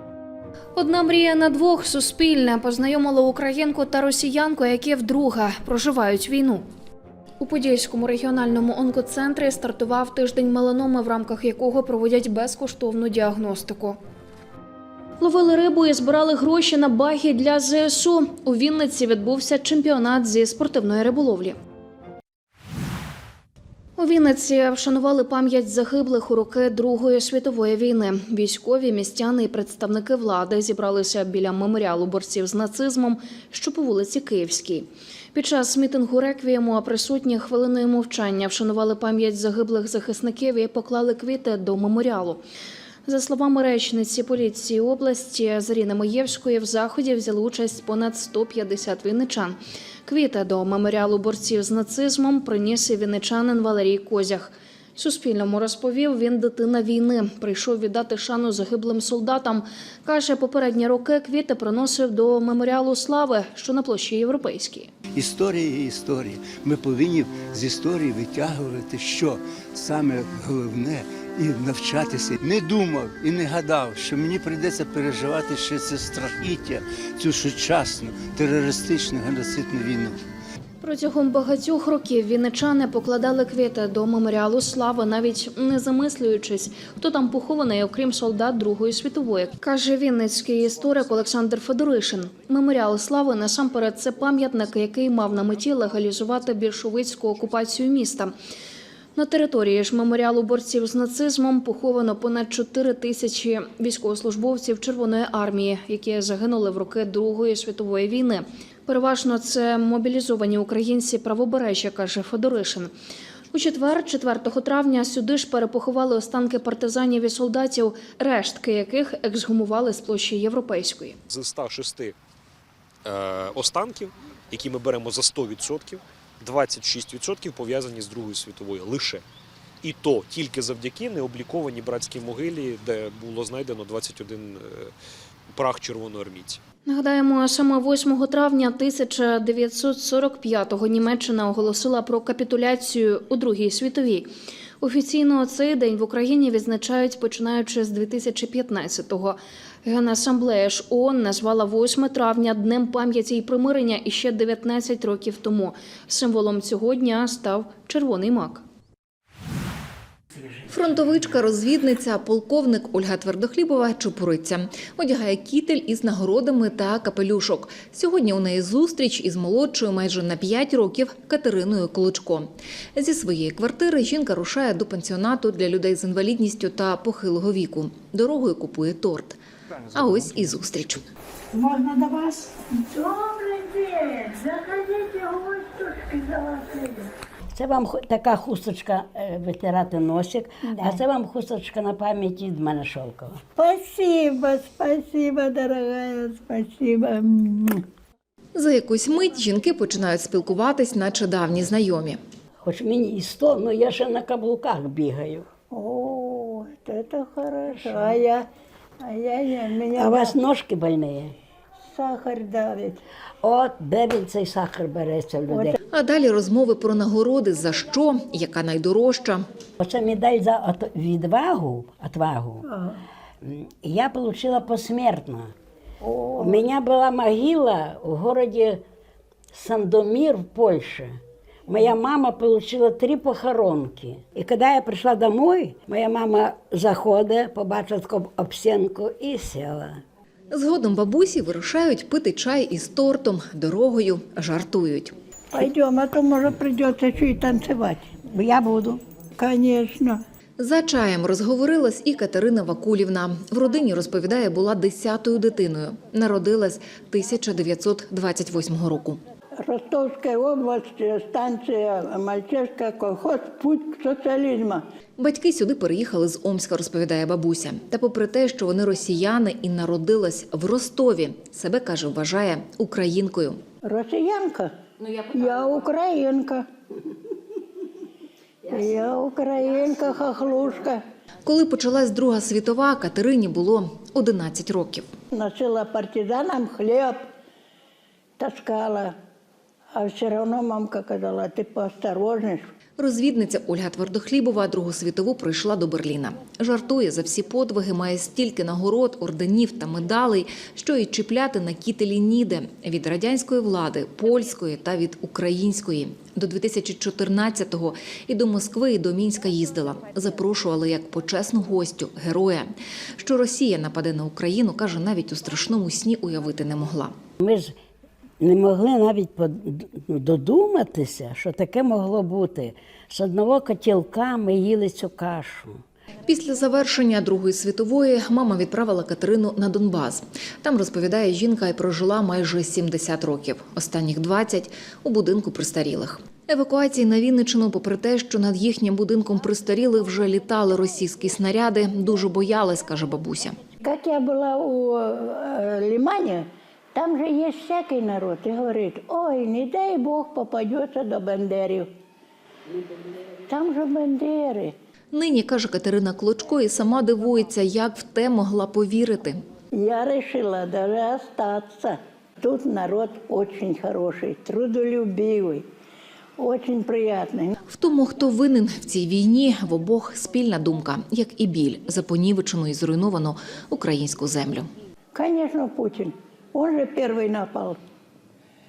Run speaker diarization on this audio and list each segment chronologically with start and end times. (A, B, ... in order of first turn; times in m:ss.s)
0:00.8-0:06.6 A
0:07.4-0:14.0 A
0:15.2-0:21.5 A
0:24.0-0:42.4 A
0:43.0-1:04.9 A
1:05.1-1:20.2 B
1:20.8-1:38.3 A
1:39.1-1:52.9 A
1:53.5-2:01.2 A
2:01.3-2:02.1 C
2:03.0-2:09.2 C
2:09.8-2:14.9 C
2:15.5-2:16.6 C
2:16.8-2:24.3 A
2:24.8-2:38.6 A
2:40.7-2:59.4 D
2:59.9-3:01.0 D
3:02.9-3:07.1 E
3:07.5-3:13.4 F
3:13.6-3:17.8 E
3:18.5-3:22.2 D
3:22.6-3:25.4 F
3:25.7-3:28.5 E
3:29.0-3:30.4 E
3:30.0-3:31.3 F
3:31.9-3:33.0 E
3:33.4-3:35.7 F
3:35.5-3:35.7 E
3:35.9-3:39.4 D
3:39.8-3:42.6 F
3:42.7-3:43.0 E
3:43.4-3:45.5 F
3:46.0-3:46.6 E
3:46.4-3:48.8 F
3:49.5-3:51.2 F
3:51.7-4:00.0 F
4:00.5-4:05.1 D
4:05.5-4:08.0 E
4:08.3-4:09.0 F
4:09.4-4:10.2 E
4:10.6-4:19.2 D
4:19.6-4:24.8 E
4:25.2-4:33.6 D
4:33.8-4:34.7 E
4:35.2-4:36.6 E
4:38.7-4:41.0 E
4:41.4-4:45.1 D
4:45.3-4:47.2 E
4:48.4-4:49.1 E
4:49.9-4:52.6 E
4:53.0-5:17.1 D
5:17.4-5:17.7 F
5:18.4-5:25.8 F
5:26.2-5:43.6 D
5:43.8-5:51.9 E
5:53.5-5:54.7 E
5:55.1-5:59.4 D
5:59.7-6:05.6 E
6:06.4-6:07.5 E
6:07.7-6:14.7 D
6:15.1-6:17.8 E